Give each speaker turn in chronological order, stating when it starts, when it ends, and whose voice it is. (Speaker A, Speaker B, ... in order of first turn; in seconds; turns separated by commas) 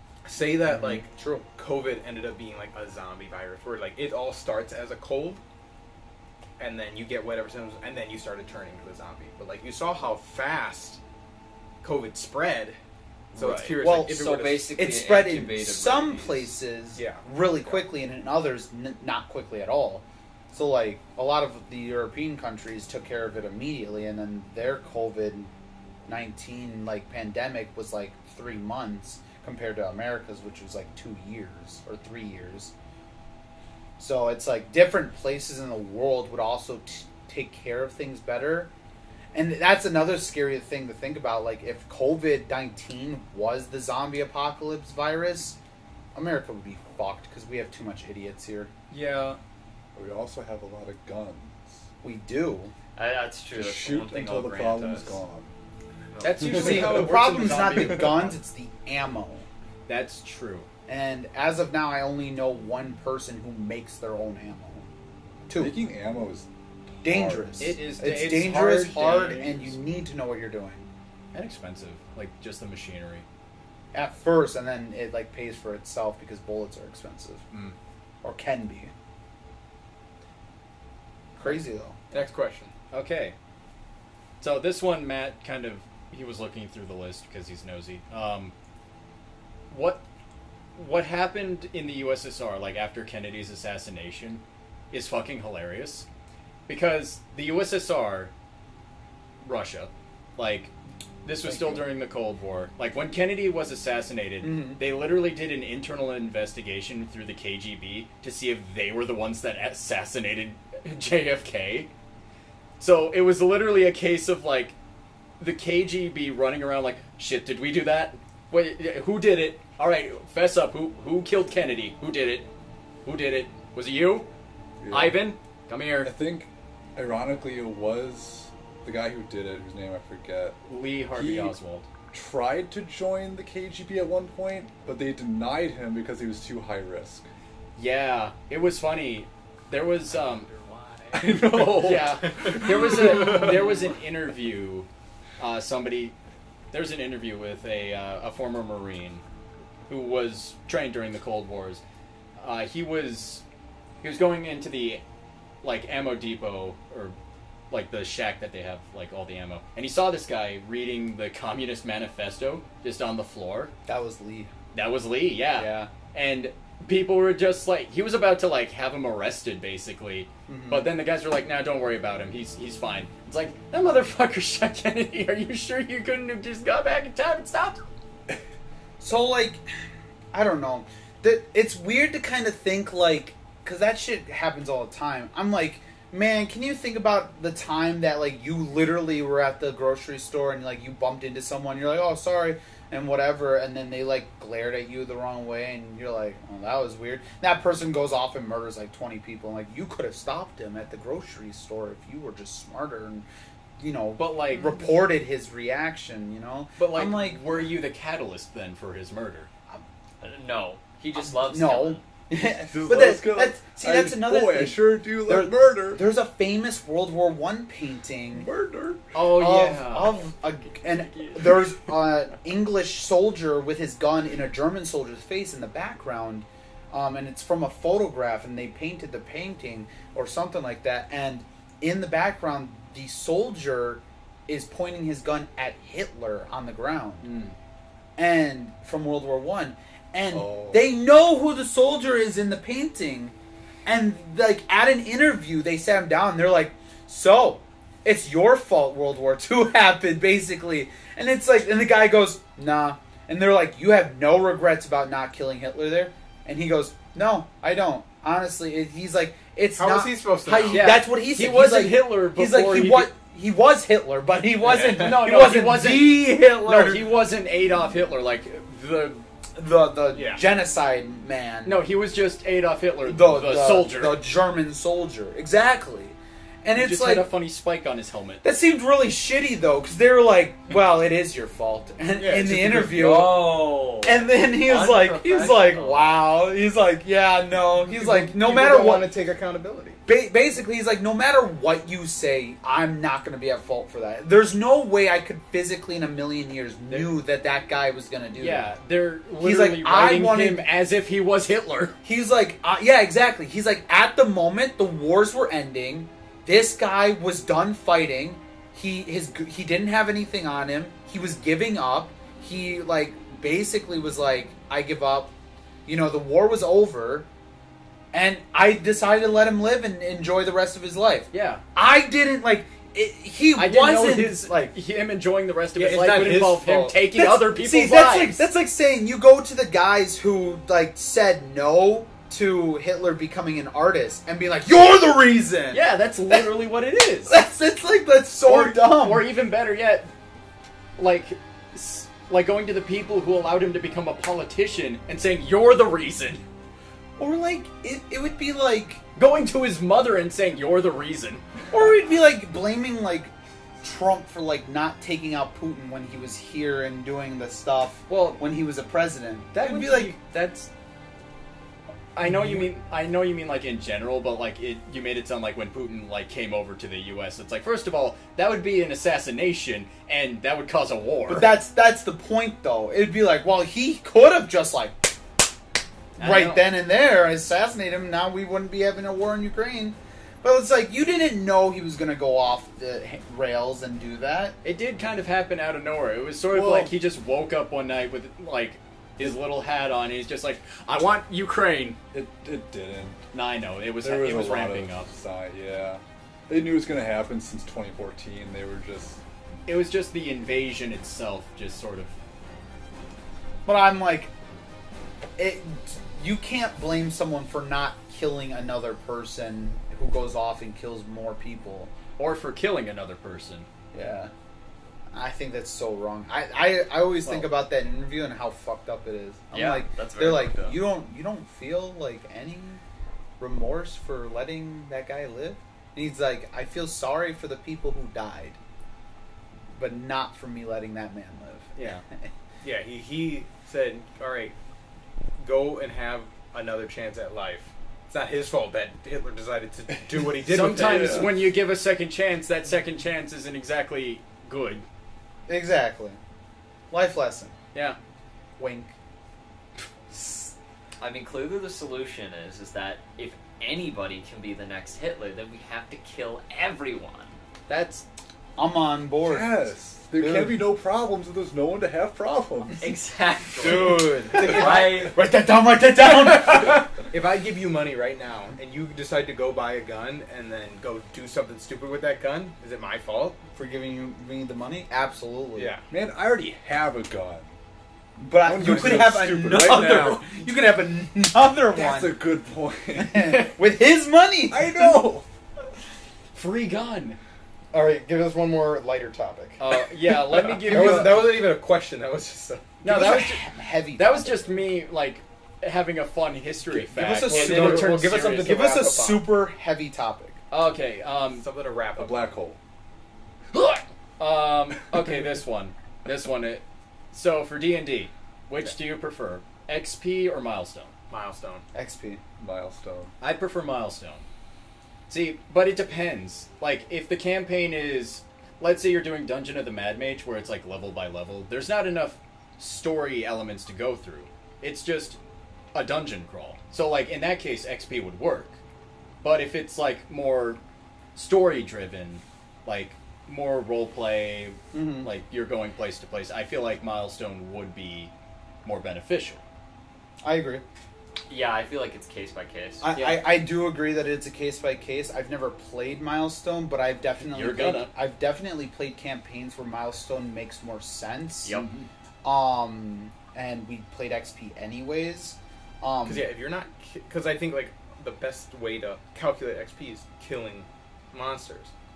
Speaker A: 0.2-5.4, Speaker B: 0.7-1.5, Speaker A: 6.6-11.0, Speaker A: 11.8-12.8, Speaker A: 13.4-14.7, Speaker C: 13.4-13.8, Speaker B: 13.8-25.5, Speaker D: 14.0-16.5, Speaker A: 16.9-17.8, Speaker B: 26.1-32.7, Speaker B: 34.0-38.7, Speaker B: 39.3-45.6, Speaker B: 46.1-48.7, Speaker C: 48.9-49.4, Speaker E: 50.0-51.8, Speaker B: 52.0-52.7, Speaker D: 53.0-55.2, Speaker E: 53.5-55.5, Speaker D: 56.1-56.8, Speaker C: 56.2-58.4, Speaker B: 56.5-59.5, Speaker E: 56.6-57.1, Speaker C: 59.9-60.7, Speaker B: 60.9-64.9, Speaker B: 65.5-65.8, Speaker E: 65.5-67.8, Speaker B: 67.0-70.9, Speaker C: 67.6-69.8, Speaker C: 71.3-73.2, Speaker B: 73.9-77.5, Speaker C: 77.5-77.8, Speaker B: 78.2-78.9, Speaker B: 81.4-82.0, Speaker A: 82.1-82.7, Speaker C: 82.9-83.3, Speaker C: 84.4-88.5, Speaker C: 89.7-90.0, Speaker C: 90.8-96.1, Speaker C: 96.7-98.3, Speaker C: 99.4-100.7, Speaker C: 101.2-111.9, Speaker B: 101.5-101.9, Speaker B: 104.4-104.8, Speaker C: 112.8-114.8, Speaker C: 115.4-122.5, Speaker C: 123.0-124.3, Speaker E: 124.8-125.3, Speaker C: 124.9-126.1, Speaker E: 126.0-130.6, Speaker C: 130.7-131.9, Speaker E: 131.1-131.5, Speaker E: 132.1-137.3, Speaker C: 137.8-140.5, Speaker E: 141.1-143.6, Speaker C: 141.2-144.9, Speaker C: 145.4-146.2, Speaker C: 146.7-149.2, Speaker C: 149.9-151.8, Speaker C: 152.4-153.4, Speaker C: 154.0-155.0, Speaker C: 155.6-157.2, Speaker C: 157.7-163.7, Speaker B: 163.9-164.5, Speaker C: 164.7-177.8, Speaker B: 165.5-165.9, Speaker B: 170.5-170.9, Speaker B: 179.0-179.6, Speaker B: 180.3-203.3, Speaker B: 203.8-207.4, Speaker C: 204.2-204.8, Speaker C: 206.8-209.5, Speaker D: 210.2-212.0, Speaker B: 211.2-218.5, Speaker E: 212.6-216.1, Speaker E: 218.3-219.1, Speaker C: 219.1-221.7, Speaker B: 219.2-237.3, Speaker C: 237.2-237.5, Speaker B: 238.2-243.3, Speaker E: 240.3-240.8, Speaker B: 243.8-267.1, Speaker A: 259.8-261.0, Speaker C: 260.7-263.1, Speaker A: 264.6-265.3, Speaker C: 264.8-269.2, Speaker B: 269.6-271.8, Speaker A: 270.1-270.4, Speaker C: 271.6-274.2, Speaker B: 273.1-277.3, Speaker C: 276.8-278.4, Speaker B: 278.4-289.1, Speaker A: 282.1-283.0, Speaker D: 282.9-286.1, Speaker A: 287.9-290.0, Speaker B: 290.1-298.7, Speaker C: 296.9-297.1, Speaker C: 298.4-302.0, Speaker B: 299.4-300.7, Speaker B: 302.0-315.3, Speaker B: 315.9-317.3, Speaker B: 318.1-324.8, Speaker C: 321.3-321.6, Speaker C: 323.6-328.4, Speaker A: 325.8-327.0, Speaker B: 327.1-336.5, Speaker C: 335.7-337.4, Speaker B: 337.3-339.3, Speaker C: 338.4-340.1, Speaker C: 341.0-346.4, Speaker B: 347.2-349.0, Speaker C: 349.2-351.4, Speaker B: 351.7-360.2, Speaker C: 358.1-358.4, Speaker C: 359.5-360.7, Speaker C: 362.1-371.6, Speaker B: 362.2-362.7, Speaker B: 371.3-375.2, Speaker C: 376.2-376.7, Speaker B: 376.2-384.6, Speaker C: 384.6-392.0, Speaker E: 386.5-386.9, Speaker E: 392.1-393.2, Speaker C: 393.3-395.1, Speaker E: 394.0-399.2, Speaker C: 399.7-402.1, Speaker B: 403.7-404.3, Speaker B: 405.4-411.9, Speaker C: 412.2-413.7, Speaker B: 413.9-414.3, Speaker B: 415.1-422.8, Speaker C: 417.2-417.5, Speaker D: 419.5-420.8, Speaker B: 423.4-428.6, Speaker B: 429.8-432.3, Speaker C: 431.8-432.0, Speaker A: 432.6-434.5, Speaker A: 435.4-441.3, Speaker C: 440.5-444.9, Speaker E: 440.6-441.3, Speaker B: 445.5-446.2, Speaker B: 446.9-447.5, Speaker B: 448.6-448.9, Speaker B: 450.1-450.5, Speaker D: 451.0-457.4, Speaker C: 457.7-458.1, Speaker B: 458.6-459.6, Speaker E: 459.2-462.9, Speaker B: 460.2-460.6, Speaker D: 462.8-465.2, Speaker A: 463.6-465.1, Speaker B: 463.6-466.9, Speaker A: 467.1-473.4, Speaker B: 473.6-475.7, Speaker A: 475.6-475.9, Speaker E: 475.9-477.5, Speaker B: 478.2-482.2, Speaker E: 478.4-480.3, Speaker E: 481.7-483.5, Speaker B: 483.0-485.1, Speaker E: 484.5-485.2, Speaker C: 486.3-487.2, Speaker A: 487.7-489.7, Speaker C: 489.6-491.3, Speaker A: 490.4-492.7, Speaker B: 490.7-491.2, Speaker C: 492.8-498.6, Speaker B: 492.8-494.5, Speaker B: 496.8-500.4, Speaker A: 497.2-499.3, Speaker C: 500.5-501.4, Speaker A: 501.3-502.4, Speaker E: 501.9-502.6, Speaker C: 503.5-510.9, Speaker A: 511.1-511.6, Speaker B: 511.7-512.2, Speaker E: 512.4-513.1, Speaker C: 513.2-514.2, Speaker C: 515.1-525.2, Speaker C: 525.7-528.6, Speaker C: 529.2-530.6, Speaker C: 531.1-538.1, Speaker B: 534.7-535.1, Speaker C: 538.6-539.4, Speaker B: 540.2-540.6, Speaker D: 541.3-542.9, Speaker B: 542.8-551.6, Speaker C: 543.0-543.3, Speaker C: 547.3-547.9, Speaker C: 551.5-551.9, Speaker B: 552.2-556.3, Speaker A: 556.1-561.7